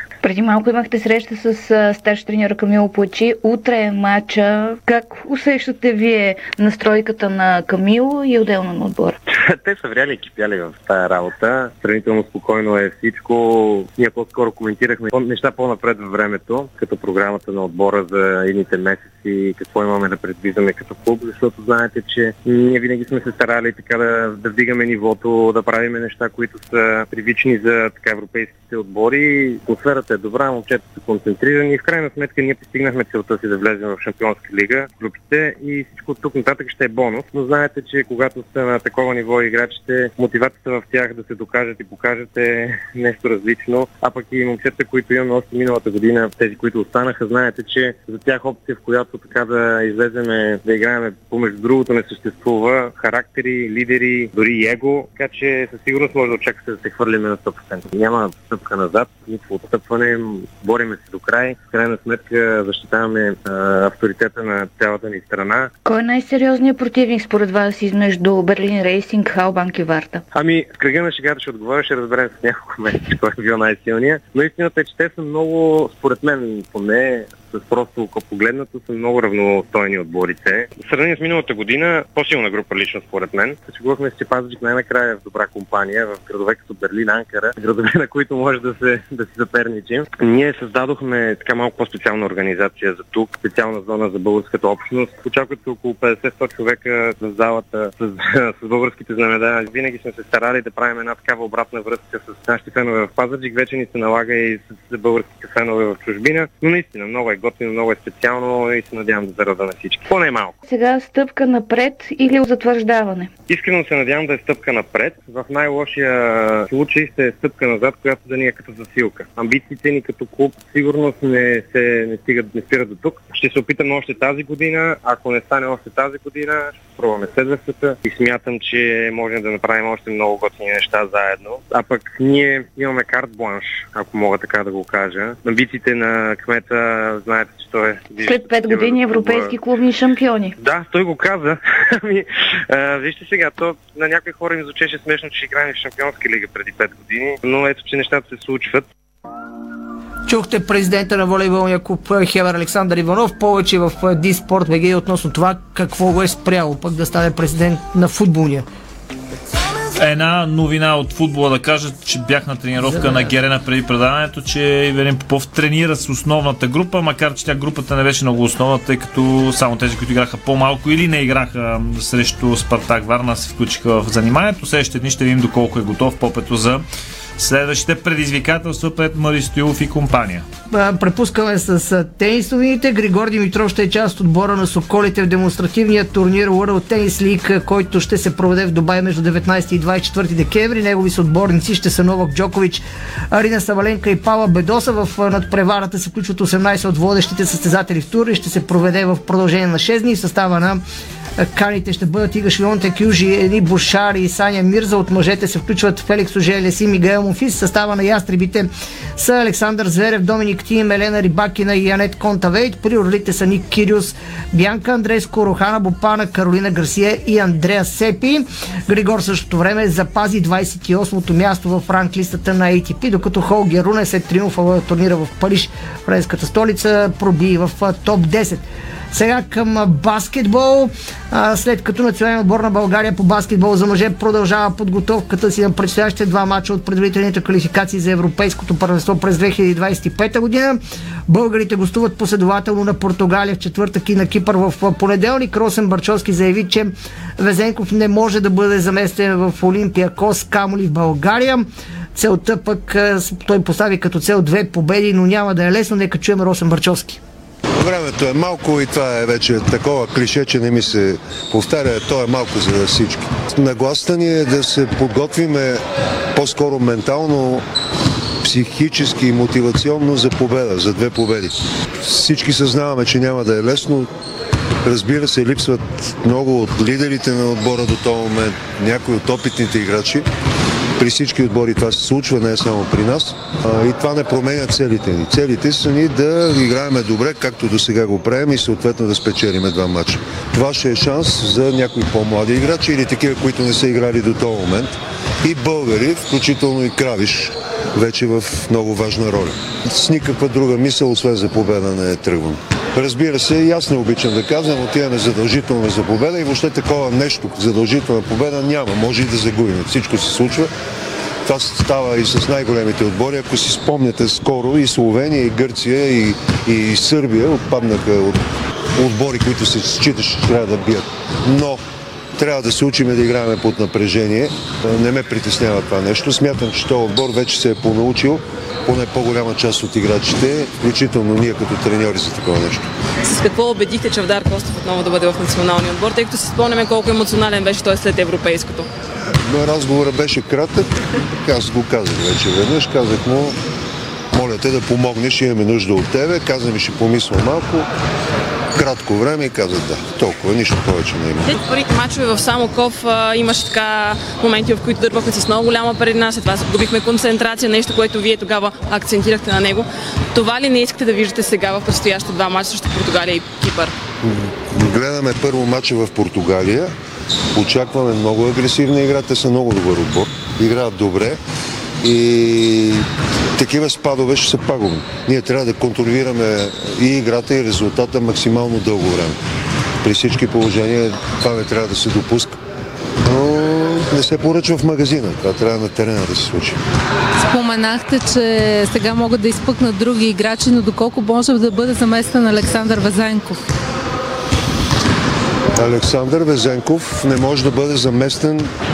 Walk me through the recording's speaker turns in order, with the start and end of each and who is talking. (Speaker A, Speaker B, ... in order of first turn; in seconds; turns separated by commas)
Speaker A: 0.2-9.2, Speaker B: 9.3-65.7, Speaker A: 65.8-70.2, Speaker B: 70.3-110.5, Speaker A: 110.7-113.3, Speaker B: 113.5-139.5, Speaker A: 138.2-140.6, Speaker B: 140.6-148.8, Speaker C: 150.3-158.7, Speaker D: 160.0-176.8, Speaker C: 162.8-163.3, Speaker D: 177.4-180.4, Speaker C: 180.7-200.8, Speaker C: 201.4-257.2, Speaker E: 257.8-265.8, Speaker E: 266.4-267.6, Speaker E: 268.4-271.5, Speaker E: 272.0-274.1, Speaker E: 274.9-280.2, Speaker E: 281.0-310.7, Speaker E: 311.5-318.4, Speaker E: 319.0-321.8, Speaker E: 322.4-332.9, Speaker F: 333.2-338.9, Speaker E: 339.5-340.9, Speaker E: 341.4-343.6, Speaker E: 344.3-347.9, Speaker E: 348.8-351.5, Speaker F: 351.5-363.9, Speaker E: 364.2-366.9, Speaker E: 367.6-371.4, Speaker E: 372.0-373.1, Speaker E: 373.6-379.4, Speaker E: 380.0-382.6, Speaker E: 383.3-386.8, Speaker G: 387.5-393.6, Speaker E: 395.8-398.7